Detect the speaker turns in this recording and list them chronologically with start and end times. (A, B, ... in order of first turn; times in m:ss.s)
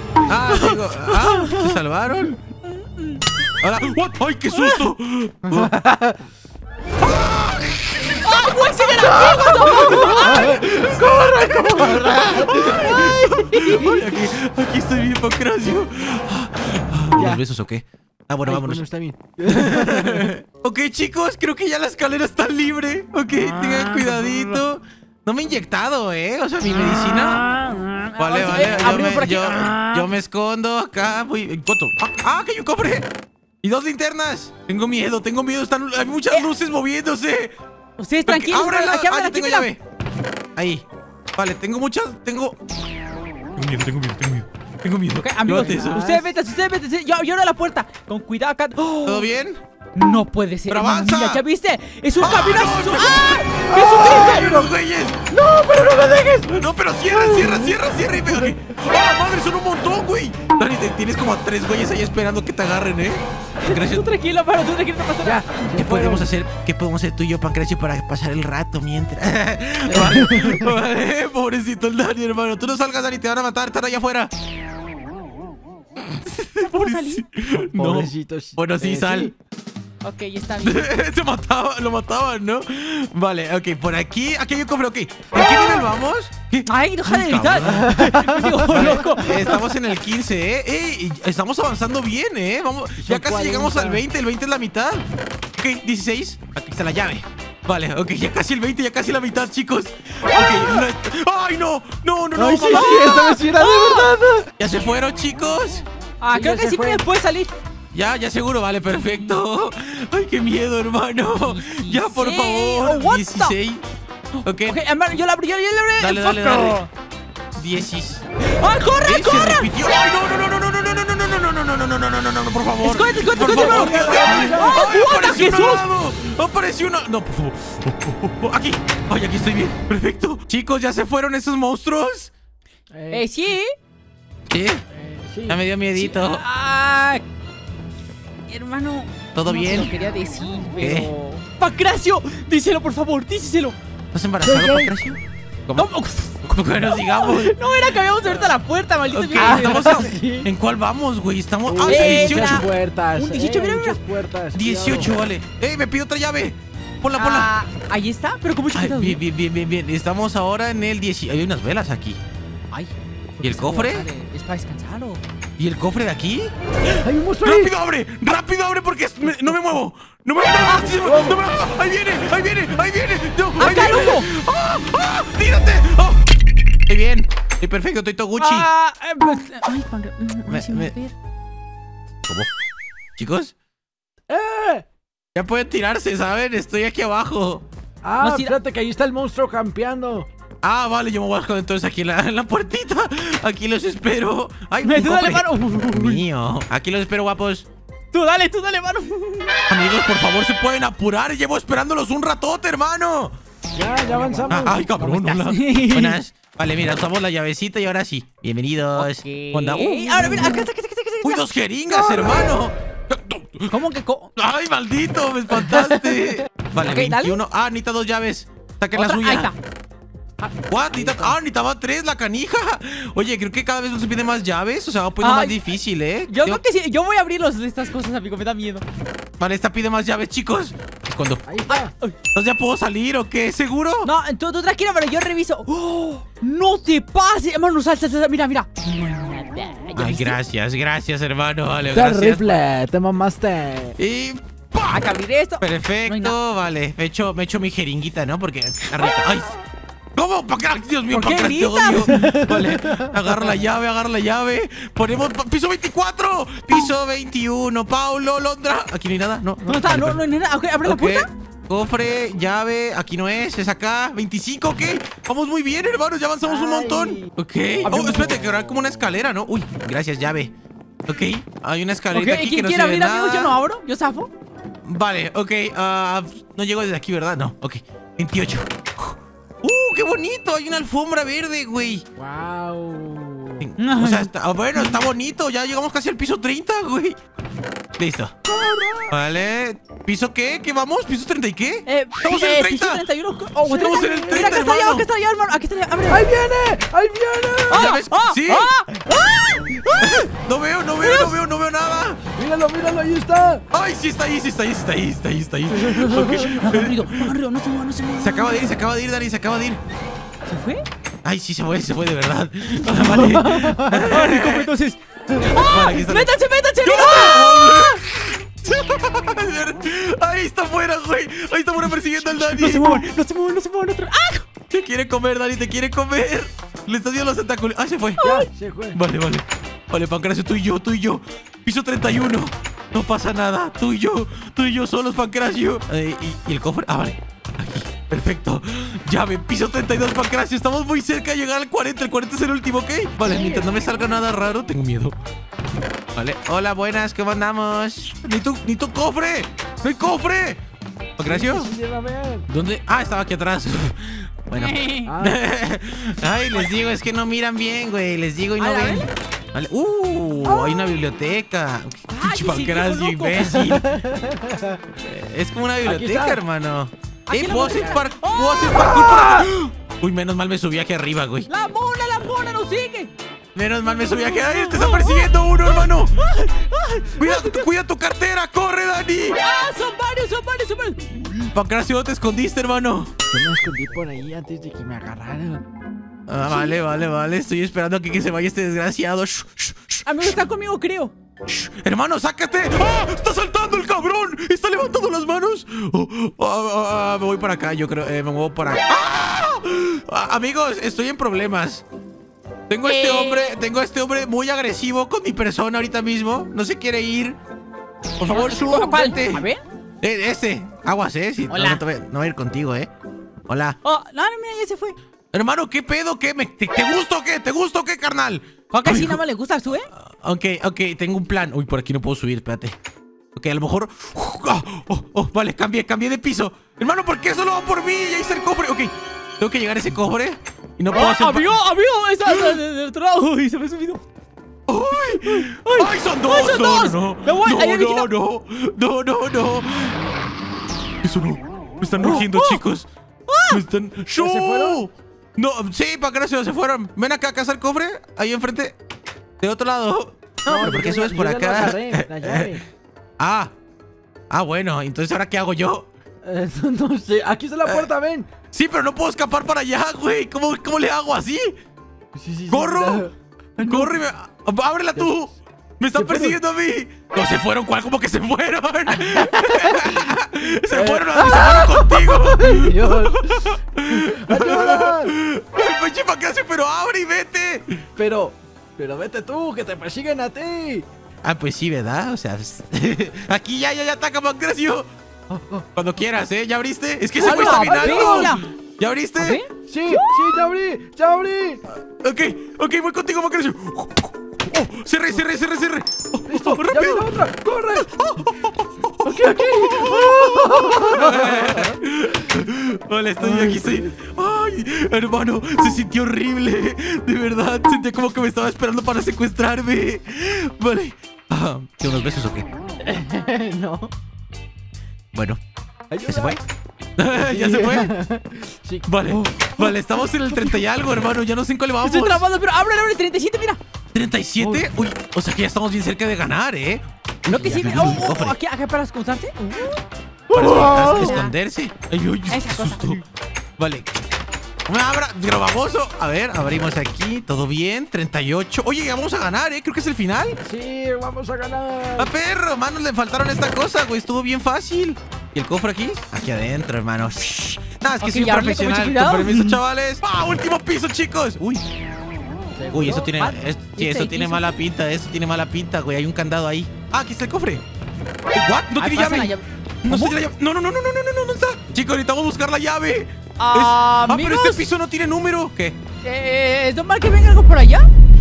0:00.3-0:02.4 A
0:00.5-0:01.8 B
0:02.6-0:03.2 B
0:03.6-0:05.7 A
0:04.5-0:04.9 B
0:05.5-0:06.2 C
0:07.0-0:18.8 A
0:08.2-0:10.6 B
0:09.2-0:12.9 C
0:12.7-0:14.1 B
0:17.1-0:17.4 C
0:18.4-0:20.3 C
0:19.4-0:27.5 A
0:27.5-0:30.1 B
0:28.2-0:33.1 A
0:33.6-0:37.5 A
0:38.0-0:39.7 B
0:38.3-0:39.8 A
0:40.6-0:40.8 A
0:41.4-0:42.7 A
0:43.6-0:46.0 A
0:45.2-0:48.8 B
0:45.6-0:46.3 C
0:48.8-0:49.3 C
0:49.0-0:49.6 A
0:49.9-0:54.6 B
0:50.7-0:51.4 A
0:52.2-0:55.2 A
0:53.6-0:54.7 C
0:55.3-0:58.6 C
0:56.5-1:04.1 A
1:03.6-1:05.5 B
1:05.2-1:06.3 C
1:05.7-1:14.3 A
1:10.0-1:10.6 C
1:16.0-1:19.3 A
1:16.6-1:17.2 B
1:17.8-1:19.3 C
1:20.0-1:20.9 B
1:20.6-1:28.1 A
1:26.6-1:29.4 B
1:27.6-1:29.6 C
1:28.7-1:43.4 A
1:33.0-1:34.0 C
1:42.4-1:44.5 C
1:42.7-1:44.1 B
1:44.6-1:45.8 A
1:46.2-1:47.5 B
1:46.3-1:47.0 C
1:47.9-1:53.8 A
1:51.3-1:53.5 B
1:54.4-1:56.9 B
1:54.4-1:54.8 A
1:56.0-1:56.8 A
1:57.5-1:58.2 A
1:58.4-1:59.7 B
1:59.0-2:12.3 A
2:02.8-2:05.8 B
2:03.4-2:04.9 C
2:12.9-2:13.3 C
2:13.1-2:13.7 B
2:14.5-2:14.8 A
2:14.9-2:15.6 C
2:15.5-2:16.4 A
2:15.9-2:17.2 B
2:18.5-2:23.8 B
2:19.3-2:19.9 A
2:20.8-2:21.1 A
2:24.1-2:25.9 A
2:24.4-2:24.9 C
2:25.8-2:30.1 B
2:26.4-2:28.5 A
2:29.1-2:32.6 A
2:29.4-2:30.5 C
2:31.7-2:35.1 C
2:31.8-2:34.0 B
2:34.5-2:37.5 A
2:37.2-2:39.2 B
2:38.7-2:42.2 A
2:42.7-2:45.2 B
2:43.4-2:44.1 A
2:45.6-2:56.3 A
2:47.0-2:47.7 C
2:50.6-2:51.1 B
2:51.0-2:51.4 C
2:53.6-2:54.3 B
2:56.9-2:58.7 A
2:58.4-3:01.1 B
3:00.5-3:01.0 A
3:02.2-3:02.5 A
3:03.2-3:03.5 A
3:04.3-3:04.8 C
3:05.3-3:07.6 A
3:08.0-3:10.3 C
3:08.2-3:08.6 B
3:10.6-3:17.7 A
3:14.8-3:16.2 B
3:18.1-3:19.6 B
3:19.7-3:23.4 A
3:23.7-3:24.9 C
3:24.1-3:26.2 B
3:24.5-3:30.6 A
3:29.0-3:32.4 B
3:31.2-3:33.8 A
3:33.7-3:34.3 B
3:34.4-3:39.5 A
3:35.6-3:36.1 B
3:36.8-3:37.4 B
3:38.9-3:39.6 B
3:40.4-3:41.3 B
3:40.7-3:46.6 A
3:45.2-3:45.6 B
3:46.3-3:48.8 B
3:49.4-3:51.4 A
3:51.4-3:51.9 C
3:51.7-3:52.2 B
3:52.3-3:54.1 A
3:54.0-4:00.4 B
4:00.0-4:02.6 A
4:01.9-4:04.0 C
4:04.0-4:05.0 A
4:04.8-4:06.4 B
4:05.6-4:09.5 A
4:10.1-4:20.2 A
4:11.1-4:12.2 B
4:12.0-4:13.2 C
4:19.6-4:21.3 B
4:20.8-4:30.5 A
4:26.4-4:27.3 C
4:27.8-4:28.3 C
4:27.8-4:28.4 B
4:31.1-4:33.6 A
4:32.1-4:34.3 B
4:34.8-4:42.0 A
4:42.2-4:43.6 C
4:43.6-4:47.2 A
4:43.8-4:45.0 B
4:48.0-4:48.3 A
4:48.4-4:49.2 C
4:49.1-4:53.0 A
4:51.8-4:56.2 B
4:53.6-4:54.5 C
4:53.6-4:55.1 A
4:56.1-4:57.9 C
4:57.7-5:00.3 B
4:57.7-4:58.7 A
4:59.9-5:02.2 A
5:01.0-5:01.3 B
5:02.4-5:03.6 C
5:03.7-5:07.3 A
5:05.7-5:08.7 B
5:08.2-5:09.8 A
5:10.5-5:10.8 B
5:11.2-5:14.7 A
5:12.9-5:18.0 B
5:13.2-5:14.0 C
5:15.4-5:23.0 A
5:22.2-5:24.5 B
5:24.7-5:28.2 A
5:28.2-5:28.5 B
5:28.2-5:29.0 C
5:28.9-5:45.2 A
5:43.2-5:43.9 C
5:46.1-5:50.6 A
5:51.2-5:51.7 A
5:51.2-5:52.5 C
5:52.5-6:04.0 A
5:54.6-5:55.1 B
5:55.0-5:55.4 C
5:58.6-5:59.1 B
6:00.4-6:00.8 C
6:02.1-6:03.6 B
6:03.5-6:04.8 C
6:05.0-6:11.5 A
6:05.8-6:06.4 C
6:07.3-6:08.9 B
6:08.7-6:09.5 C
6:11.5-6:13.1 B
6:13.5-6:16.2 A
6:13.9-6:17.7 B
6:17.2-6:19.4 A
6:19.3-6:21.5 B
6:21.4-6:23.1 A
6:23.3-6:25.6 C
6:26.3-6:30.4 A
6:26.5-6:26.8 B
6:30.0-6:31.1 B
6:31.5-6:41.8 A
6:42.7-6:47.4 A
6:42.8-6:43.6 B
6:48.2-6:49.5 A
6:48.3-6:49.6 B
6:50.0-6:52.9 A
6:51.5-6:51.8 B
6:53.5-6:53.8 A
6:53.8-6:54.9 B
6:55.3-6:59.2 A
6:58.7-6:59.9 B
6:59.9-7:02.8 A
7:03.3-7:11.5 A
7:10.9-7:14.0 B
7:12.2-7:12.6 A
7:14.7-7:20.0 A
7:15.0-7:18.1 B
7:21.0-7:22.9 A
7:22.0-7:22.6 B
7:23.3-7:23.6 B
7:23.5-7:28.8 A
7:24.2-7:24.8 C
7:29.4-7:32.6 A
7:30.5-7:32.6 C
7:33.2-7:33.5 A
7:34.3-7:35.9 A
7:36.2-7:38.3 C
7:38.5-7:41.5 A
7:42.1-7:43.9 C
7:42.5-7:43.0 A
7:43.6-7:57.8 A
7:45.9-7:46.4 C
7:49.0-7:49.8 C
7:50.7-7:55.1 C
7:58.0-8:00.8 C
8:01.2-8:04.9 A
8:05.3-8:05.6 C
8:05.7-8:09.4 A
8:07.2-8:08.5 B
8:07.2-8:08.3 C
8:09.2-8:10.3 B
8:09.7-8:11.6 C
8:12.0-8:17.2 A
8:16.3-8:17.9 C
8:17.7-8:32.5 A
8:19.0-8:21.8 C
8:23.2-8:23.9 C
8:32.8-8:33.9 C
8:35.1-8:35.4 A
8:35.9-8:36.4 C
8:36.1-8:36.4 A
8:37.0-8:37.9 A
8:37.1-8:39.2 C
8:38.8-8:42.2 A
8:39.6-8:40.6 B
8:41.8-8:43.6 B
8:43.9-8:48.4 A
8:47.3-8:49.8 B
8:50.3-8:51.2 C
8:50.3-8:53.0 A
8:50.4-8:51.3 B
8:52.3-8:53.0 B
8:53.6-8:54.0 A
8:54.7-9:00.4 A
9:00.4-9:02.1 C
9:02.0-9:11.6 A
9:08.0-9:09.6 B
9:12.6-9:13.1 C
9:12.7-9:17.6 A
9:12.8-9:14.5 B
9:18.3-9:25.8 A
9:18.8-9:20.2 B
9:23.4-9:24.6 B
9:26.0-9:27.9 B